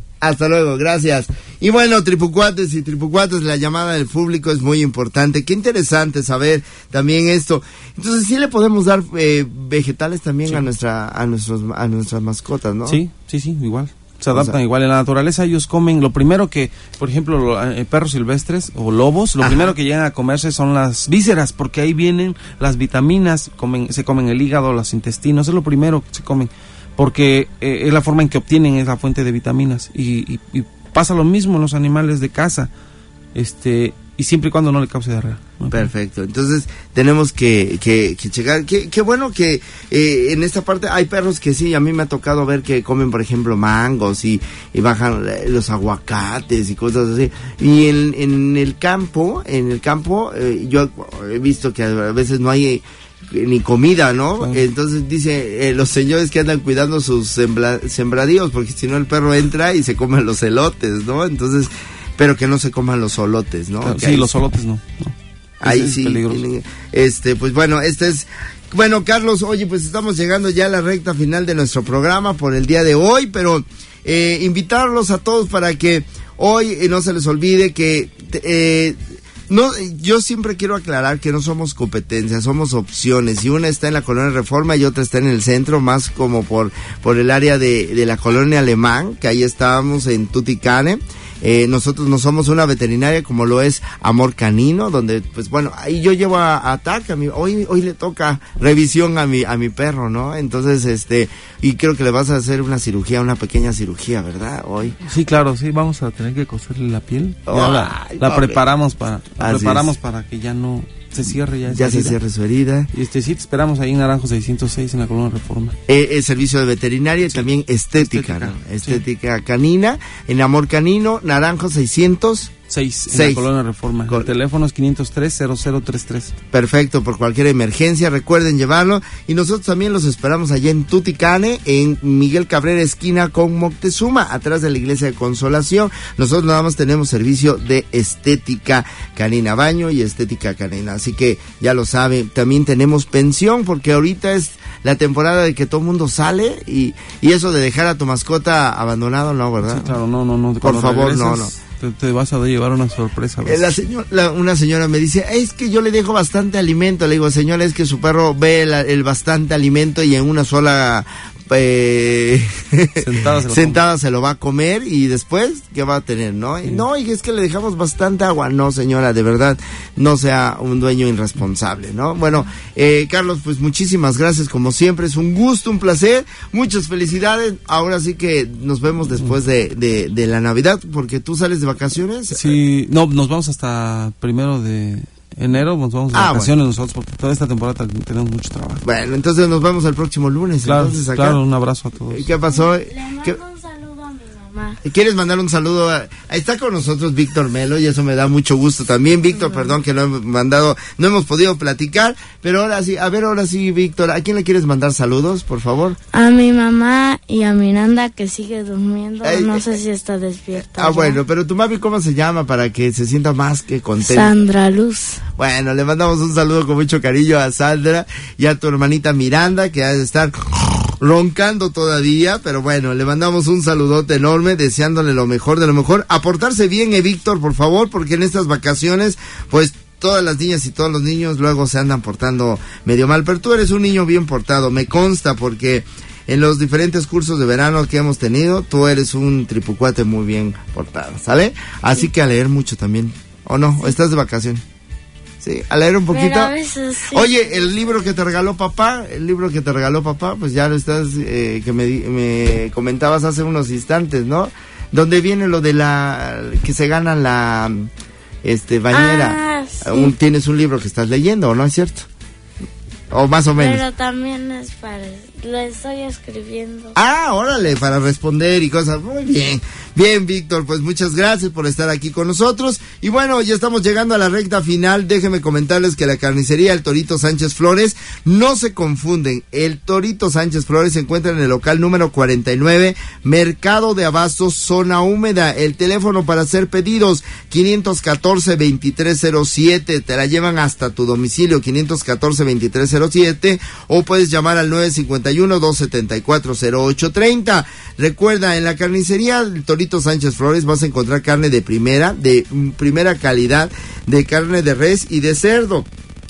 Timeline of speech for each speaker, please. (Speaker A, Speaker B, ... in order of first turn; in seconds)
Speaker A: 0.2-13.0, 14.3-14.6, 19.4-19.7, 35.7-64.3, 65.6-79.0, 79.5-105.0, 107.5-108.6, 109.4-109.9, 111.6-112.9, 115.9-122.5, 123.1-123.5, 126.5-149.9, 150.6-151.5, 153.4-182.6, 186.1-186.6, 188.8-191.4, 192.1-193.4, 194.8-206.0, 209.2-209.8, 210.6-214.4, 215.4-244.6, 245.4-246.5, 247.1-257.9, 258.4-262.1, 263.1-263.8, 266.9-305.9
Speaker B: 12.8-32.7, 33.3-35.9, 63.8-66.4, 105.0-112.2, 112.9-115.7, 117.2-119.0, 122.7-126.3, 149.6-153.8, 163.0-163.8, 182.3-188.8, 190.6-192.2
Speaker C: 192.5-194.8, 206.1-211.2, 214.0-215.2, 246.1-247.6, 258.9-260.1, 263.5-266.9